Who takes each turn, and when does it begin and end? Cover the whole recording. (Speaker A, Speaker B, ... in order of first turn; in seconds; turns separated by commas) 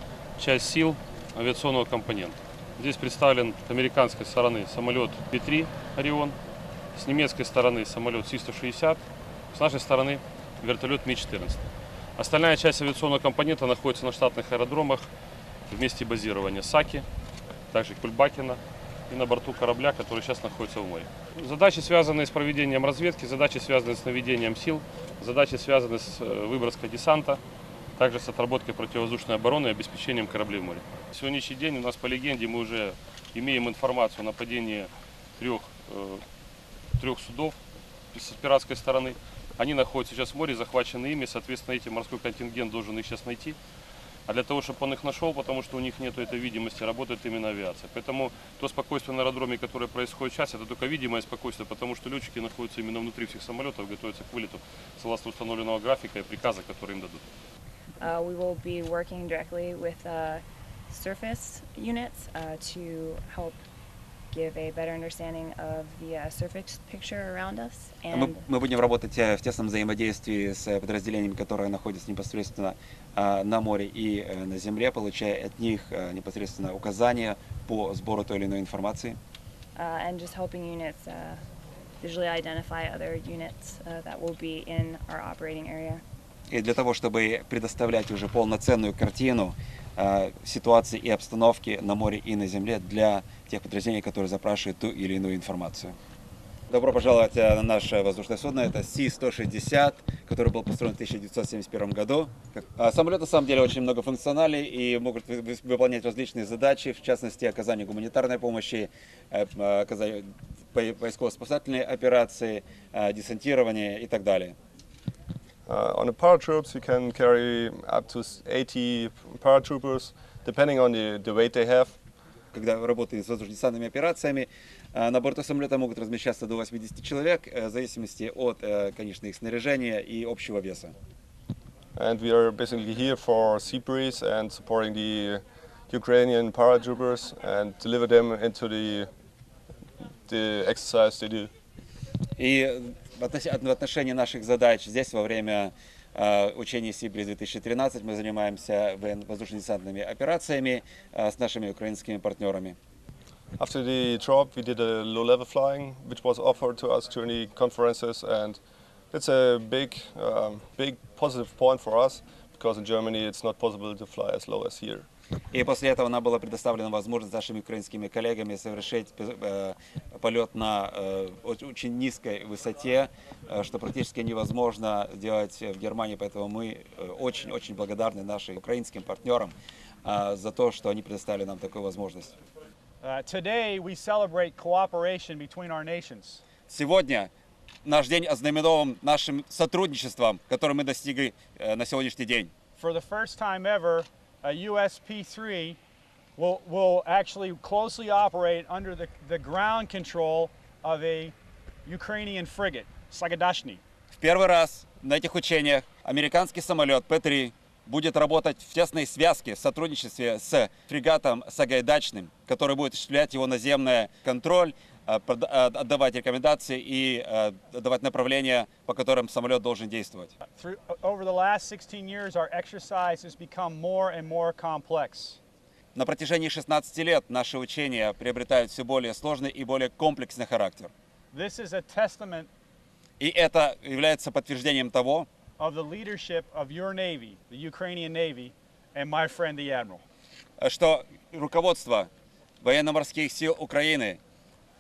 Speaker A: 0.4-6.4, Speaker A: 7.0-11.7, Speaker A: 12.2-15.1, Speaker A: 15.7-17.1, Speaker A: 17.7-27.4, Speaker A: 28.0-36.2, Speaker A: 37.0-37.6, Speaker A: 38.1-43.6, Speaker A: 44.3-57.2, Speaker B: 58.0-63.6, Speaker B: 64.3-68.4, Speaker C: 68.1-79.2, Speaker B: 79.8-81.4, Speaker B: 82.0-86.0, Speaker C: 86.5-96.0, Speaker C: 96.7-114.5, Speaker D: 115.7-122.0, Speaker C: 122.5-130.9, Speaker D: 131.9-139.1, Speaker D: 140.3-141.5, Speaker C: 142.4-152.8, Speaker D: 153.6-158.6, Speaker D: 159.1-165.1, Speaker C: 165.5-182.4, Speaker E: 183.0-186.4, Speaker C: 186.7-187.3, Speaker C: 187.8-192.5, Speaker E: 192.8-195.8, Speaker E: 196.4-201.3, Speaker E: 201.8-203.8, Speaker C: 204.2-220.3, Speaker E: 220.5-225.4, Speaker C: 225.9-230.9, Speaker E: 231.3-232.5, Speaker C: 233.2-235.3, Speaker E: 235.6-240.0, Speaker C: 240.6-242.1, Speaker C: 242.6-244.2